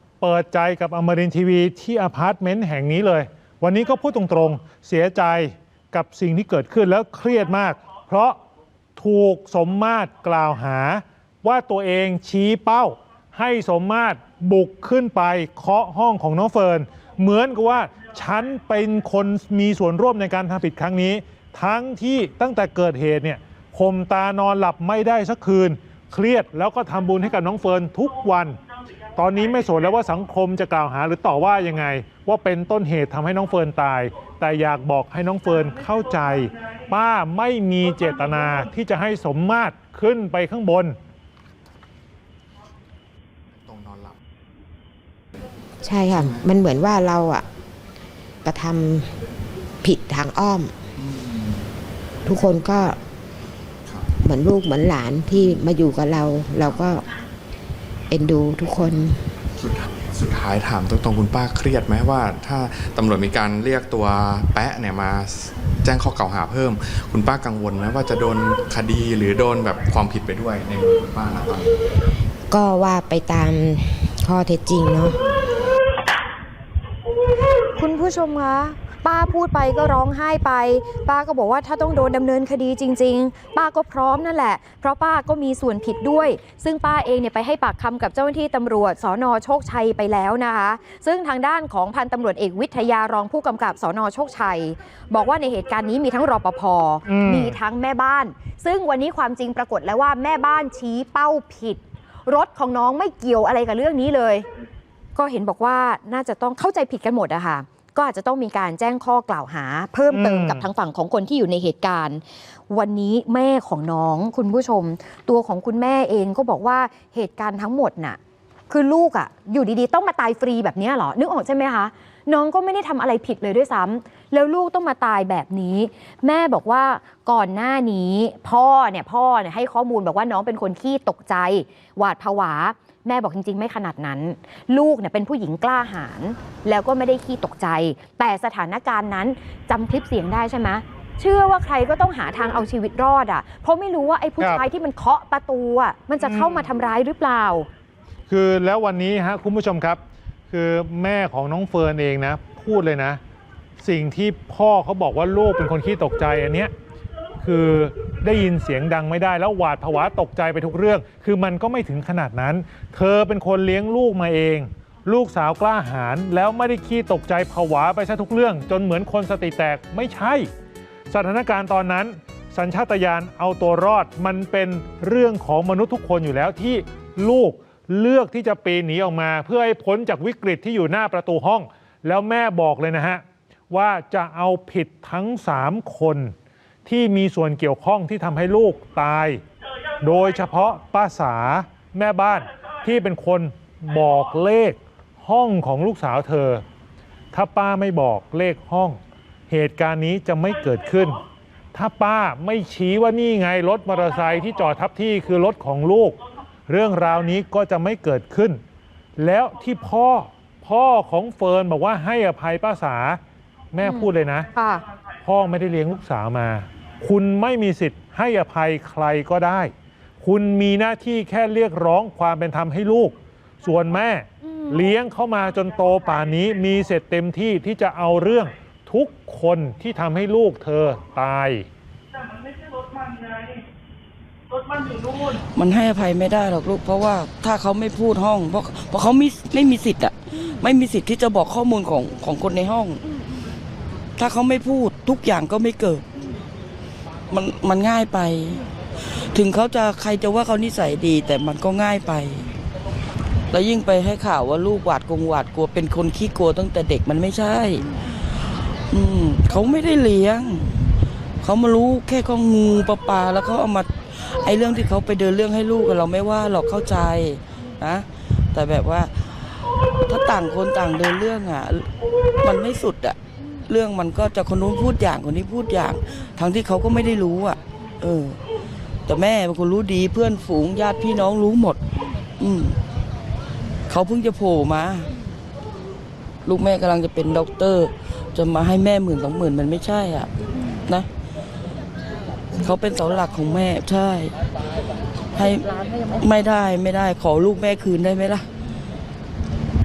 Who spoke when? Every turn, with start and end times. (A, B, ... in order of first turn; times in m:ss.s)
0:00.2-0:08.4 A
0:09.0-0:28.6 A
0:29.2-0:41.0 A
0:36.0-0:36.6 B
0:43.5-0:44.2 C
0:45.8-0:47.4 D
0:48.4-0:49.1 D
0:49.8-0:50.7 D
0:51.2-0:51.6 C
0:52.2-0:53.0 D
0:54.2-0:57.0 D
0:58.1-0:59.3 D
0:59.6-1:11.7 C
1:12.5-1:15.2 D
1:17.8-1:44.4 E
1:37.1-1:37.6 A
1:45.2-1:58.2 E
1:50.1-1:50.6 A
1:58.7-2:27.7 E
2:26.2-2:26.6 A
2:28.3-2:30.0 A
2:30.5-2:33.2 A
2:33.8-2:36.7 A
2:37.4-2:50.5 A
2:51.1-3:06.3 A
3:06.8-3:09.4 A
3:10.0-3:16.6 A
3:17.3-3:21.2 A
3:21.7-3:28.6 A
3:29.2-3:33.2 A
3:33.7-3:34.5 A
3:33.8-3:34.8 E
3:35.2-3:51.6 A
3:44.4-3:44.8 E
3:45.5-3:46.4 B
3:52.1-3:53.6 B
3:54.5-3:55.4 B
3:55.5-4:03.0 F
4:04.2-4:06.0 F
4:07.3-4:12.6 F
4:13.5-4:18.2 F
4:18.9-4:31.9 F
4:32.4-4:38.4 F
4:39.0-4:41.8 F
4:42.4-4:42.8 F
4:43.9-4:45.1 F
4:46.4-4:51.1 F
4:52.5-4:54.3 F
4:55.3-4:58.4 F